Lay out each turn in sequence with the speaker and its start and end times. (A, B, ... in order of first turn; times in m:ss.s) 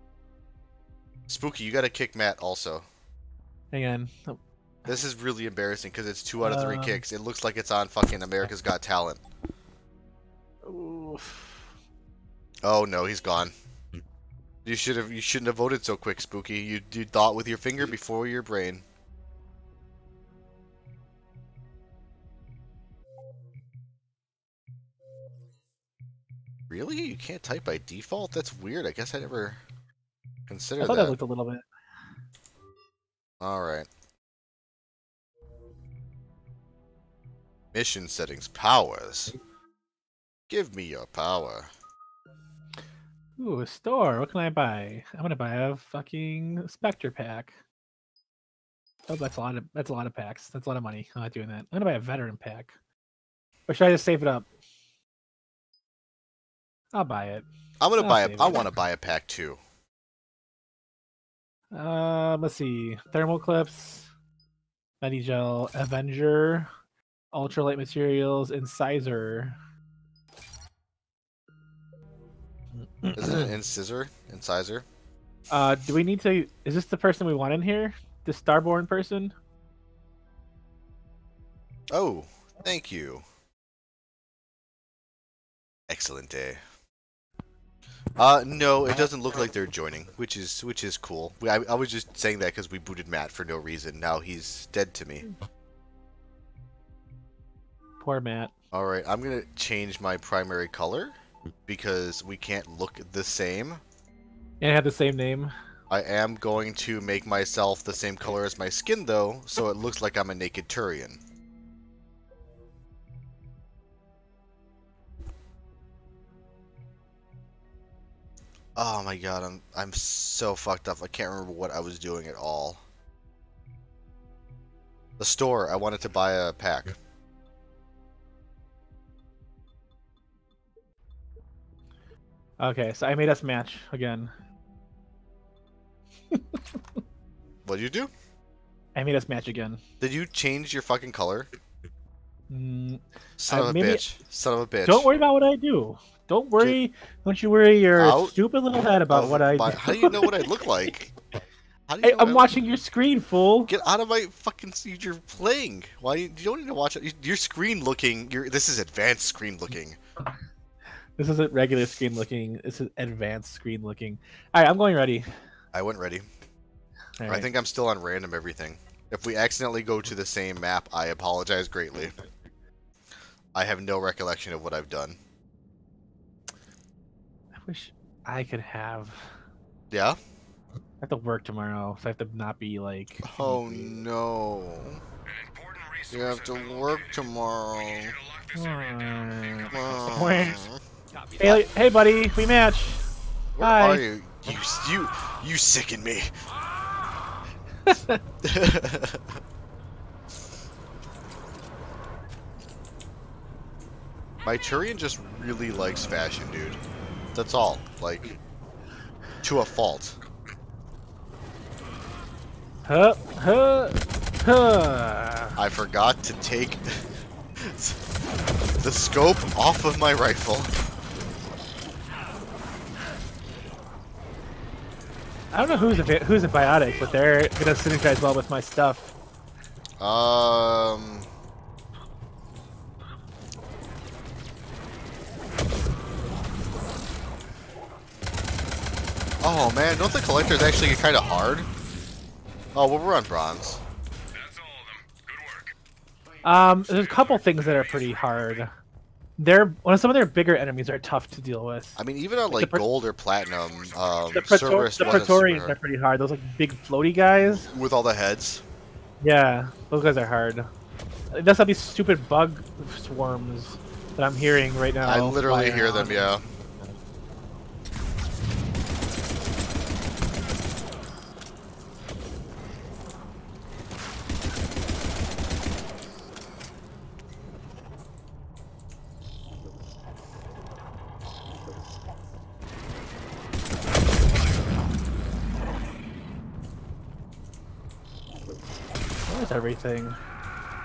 0:01.3-0:02.8 A
0:03.7-0:04.4 B
0:04.9-0:09.2 A
0:06.4-0:07.0 B
0:10.6-0:11.6 B
0:12.6-0:13.5 A
0:14.6-0:18.8 A
0:26.7-0:29.6 A
0:30.5-0:31.2 A
0:30.8-0:31.6 B
0:33.4-0:33.9 A
0:37.7-0:39.4 A
0:40.5-0:41.7 A
0:43.4-0:47.6 B
0:49.1-0:52.7 B
0:53.7-0:54.5 B
0:56.9-0:57.5 B
0:57.8-0:59.6 A
0:58.0-0:58.7 B
1:01.7-1:04.1 B
1:05.0-1:06.7 B
1:07.3-1:09.6 B
1:13.0-1:13.5 B
1:13.2-1:14.8 A
1:15.5-1:19.3 B
1:21.9-1:23.2 A
1:25.9-1:26.6 A
1:28.2-1:35.3 A
1:38.0-1:38.5 B
1:38.7-1:41.2 A
1:41.7-1:43.8 A
1:44.6-1:45.5 B
1:45.9-1:51.2 A
1:58.8-2:02.8 A
2:05.2-2:07.0 A
2:12.6-2:14.3 B
2:16.3-2:16.8 B
2:17.6-2:18.1 A
2:19.0-2:19.8 B
2:20.0-2:21.5 A
2:22.5-2:24.1 B
2:23.4-2:25.1 A
2:24.8-2:31.1 B
2:28.0-2:28.4 A
2:29.1-2:31.0 A
2:31.9-2:32.5 A
2:32.0-2:33.7 B
2:33.7-2:40.0 A
2:41.2-2:45.3 B
2:45.7-2:46.3 A
2:47.2-2:47.5 B
2:47.3-2:52.2 A
2:53.5-2:55.2 A
2:57.6-2:59.4 B
2:59.9-3:00.2 A
3:01.0-3:03.9 B
3:03.2-3:05.0 A
3:05.2-3:10.0 C
3:06.1-3:08.1 A
3:08.6-3:10.6 B
3:09.7-3:10.8 A
3:11.2-3:13.0 B
3:13.6-3:16.3 A
3:13.6-3:14.0 B
3:17.9-3:18.2 B
3:18.4-3:19.4 A
3:24.4-3:26.8 A
3:27.4-3:28.4 A
3:29.4-3:30.2 A
3:32.9-3:35.6 B
3:35.6-3:37.0 A
3:37.6-3:38.0 A
3:38.8-3:40.7 A
3:45.5-3:49.1 B
3:50.0-3:51.3 A
3:59.4-4:01.7 A
4:02.7-4:03.8 A
4:04.3-4:05.7 C
4:06.4-4:08.7 B
4:09.4-4:12.0 B
4:12.0-4:15.8 A
4:12.5-4:12.8 B
4:13.5-4:15.0 C
4:14.3-4:17.7 B
4:17.5-4:18.6 A
4:19.2-4:20.7 B
4:21.3-4:26.3 B
4:25.0-4:26.4 A
4:49.3-4:50.2 B